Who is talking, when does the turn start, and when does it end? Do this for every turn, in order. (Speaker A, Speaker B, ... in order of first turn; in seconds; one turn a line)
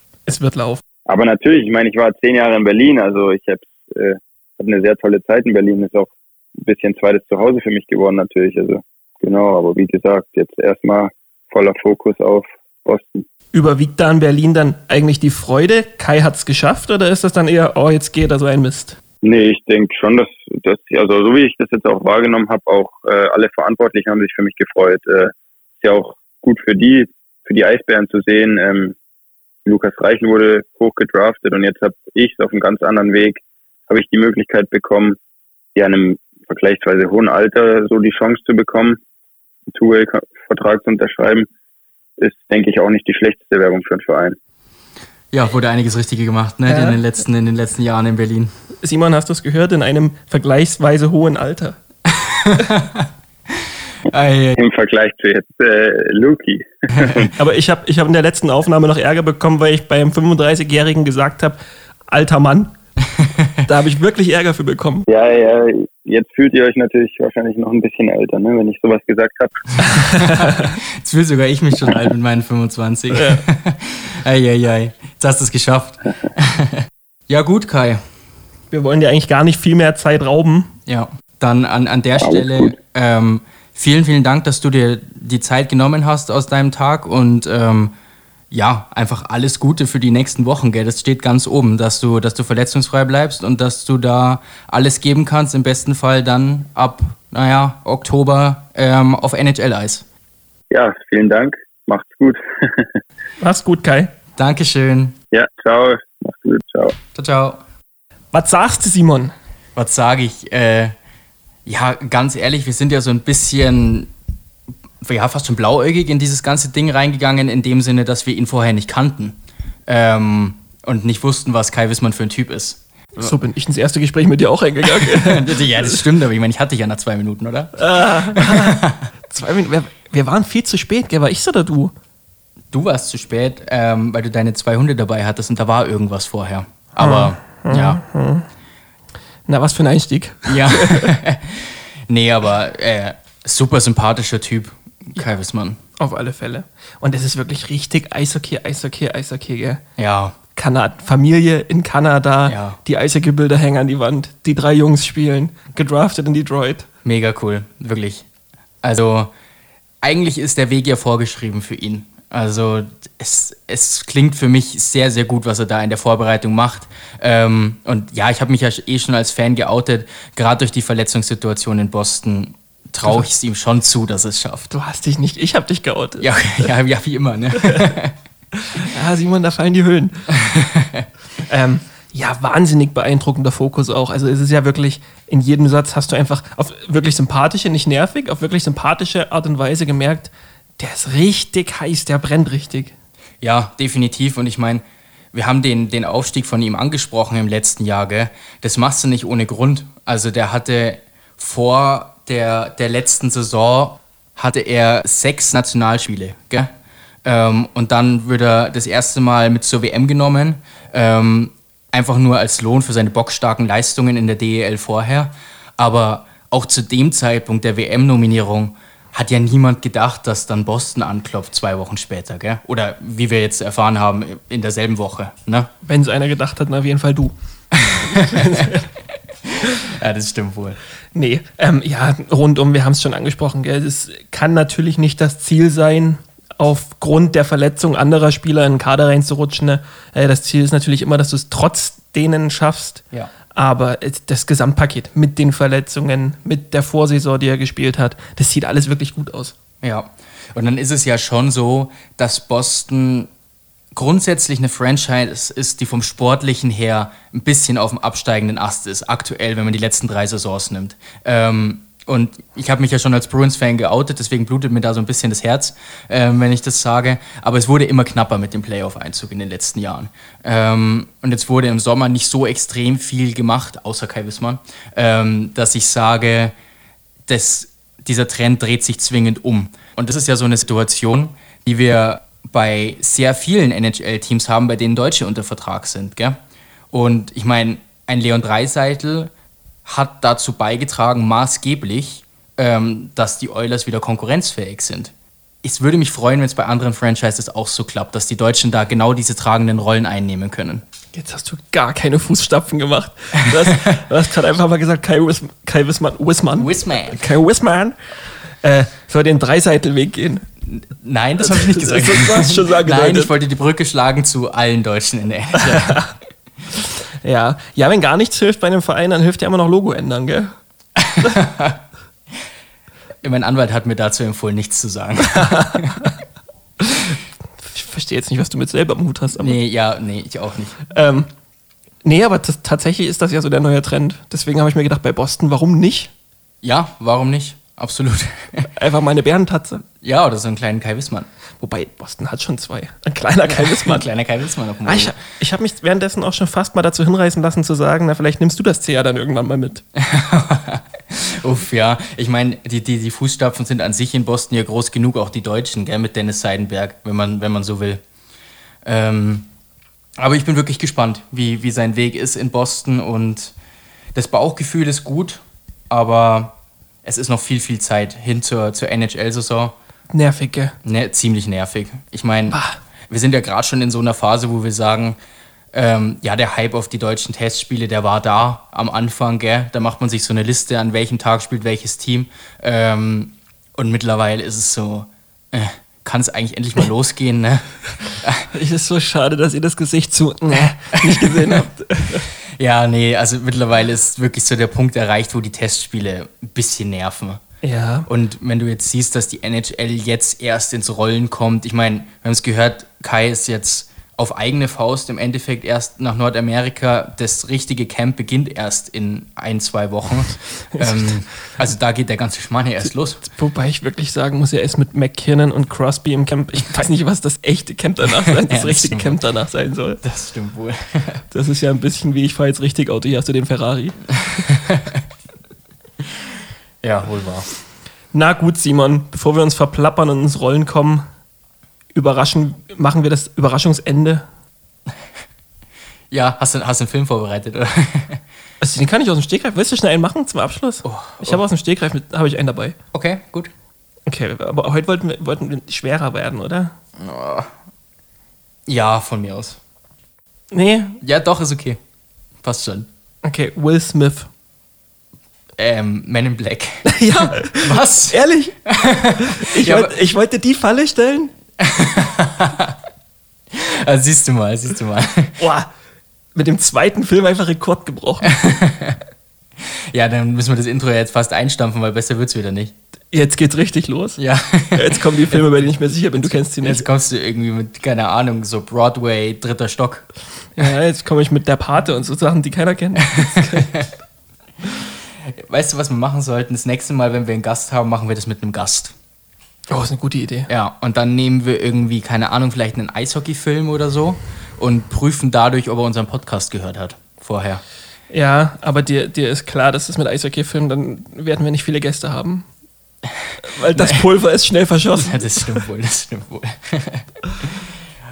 Speaker A: 0.3-0.8
Speaker B: 1.1-13.3
Speaker A: 13.5-19.0
Speaker B: 19.2-29.0
Speaker B: 29.6-35.2
Speaker B: 35.8-39.0
Speaker B: 39.7-41.5
Speaker B: 42.2-44.4
Speaker C: 45.3-48.5
Speaker A: 46.7-47.0
Speaker A: 48.8-51.8
Speaker C: 52.1-53.1
Speaker C: 54.1-54.6
Speaker B: 54.6-57.3
Speaker C: 57.0-57.3
Speaker A: 57.4-62.8
Speaker C: 63.2-63.6
Speaker A: 63.7-65.1
Speaker B: 65.1-69.6
Speaker C: 69.8-78.0
Speaker A: 69.8-70.8
Speaker A: 73.1-73.4
Speaker A: 78.7-80.7
Speaker C: 80.9-87.9
Speaker B: 82.2-82.7
Speaker C: 88.5-100.0
Speaker B: 100.7-103.0
Speaker A: 103.4-104.1
Speaker C: 104.4-105.2
Speaker B: 105.3-107.0
Speaker C: 107.1-107.6
Speaker A: 108.3-109.3
Speaker C: 109.8-110.9
Speaker C: 111.7-114.1
Speaker C: 115.0-123.4
Speaker A: 123.2-126.1
Speaker C: 124.8-129.1
Speaker A: 127.8-131.9
Speaker C: 132.7-138.0
Speaker A: 137.0-138.4
Speaker A: 139.5-141.1
Speaker C: 140.5-145.8
Speaker A: 146.0-149.8
Speaker C: 150.0-150.4
Speaker A: 150.6-156.9
Speaker C: 152.5-152.8
Speaker C: 157.0-158.3
Speaker C: 158.8-159.3
Speaker C: 160.0-174.7
Speaker A: 174.7-176.7
Speaker C: 176.2-178.2
Speaker A: 177.6-177.9
Speaker A: 178.6-180.3
Speaker C: 180.3-181.1
Speaker A: 181.5-192.9
Speaker C: 193.4-206.7
Speaker C: 207.2-225.7
Speaker A: 225.9-227.3
Speaker C: 227.8-228.8
Speaker A: 228.1-228.9
Speaker C: 229.5-230.8
Speaker A: 231.1-249.5
Speaker C: 249.8-253.3
Speaker C: 254.0-276.5
Speaker C: 277.3-286.4
Speaker C: 286.9-289.3
Speaker C: 289.9-300.8
Speaker A: 301.1-308.0
Speaker C: 306.6-307.2
Speaker A: 308.6-310.4
Speaker C: 310.7-316.1
Speaker A: 311.4-313.3
Speaker A: 315.7-316.1
Speaker A: 316.7-320.5
Speaker C: 321.0-321.8
Speaker C: 323.2-326.0
Speaker A: 325.3-326.1
Speaker A: 326.8-329.6
Speaker C: 329.4-330.8
Speaker A: 330.9-331.3
Speaker A: 332.1-336.1
Speaker C: 336.6-338.7
Speaker A: 338.8-339.8
Speaker C: 340.0-341.3
Speaker A: 341.6-344.1
Speaker C: 343.5-345.1
Speaker A: 344.9-349.8
Speaker C: 350.0-358.0
Speaker C: 358.9-359.5
Speaker C: 360.2-363.5
Speaker C: 364.1-369.8
Speaker A: 370.1-370.8
Speaker C: 370.8-372.6
Speaker A: 372.5-372.8
Speaker C: 373.1-375.2
Speaker C: 375.7-388.5
Speaker A: 388.5-392.3
Speaker C: 391.0-391.7
Speaker C: 392.6-397.4
Speaker A: 397.6-398.1
Speaker C: 398.1-413.2
Speaker A: 410.8-411.1
Speaker A: 413.2-420.0
Speaker C: 418.4-419.2
Speaker C: 420.0-421.2
Speaker A: 421.3-424.2
Speaker C: 424.3-425.0
Speaker C: 426.8-427.5
Speaker A: 428.1-431.0
Speaker A: 431.9-434.2
Speaker C: 436.1-438.2
Speaker A: 438.6-442.8
Speaker C: 440.8-441.4
Speaker C: 442.9-443.5
Speaker A: 444.1-446.7
Speaker C: 447.0-447.5
Speaker C: 448.7-449.6
Speaker A: 450.5-451.0
Speaker C: 451.0-451.8
Speaker C: 452.4-452.9
Speaker A: 453.2-454.3
Speaker C: 455.6-459.9
Speaker A: 456.9-461.3
Speaker C: 461.6-462.8
Speaker C: 463.5-465.4
Speaker A: 465.4-465.7
Speaker A: 466.4-468.3
Speaker C: 468.2-469.0
Speaker C: 469.9-472.7
Speaker A: 473.1-474.2
Speaker C: 474.2-475.4
Speaker A: 474.8-476.8
Speaker C: 476.6-480.1
Speaker A: 480.6-483.7
Speaker C: 483.1-483.9
Speaker C: 485.5-488.9
Speaker A: 489.7-490.5
Speaker C: 490.5-497.6
Speaker A: 498.1-502.4
Speaker C: 503.2-504.0
Speaker A: 503.4-505.6
Speaker C: 505.0-507.7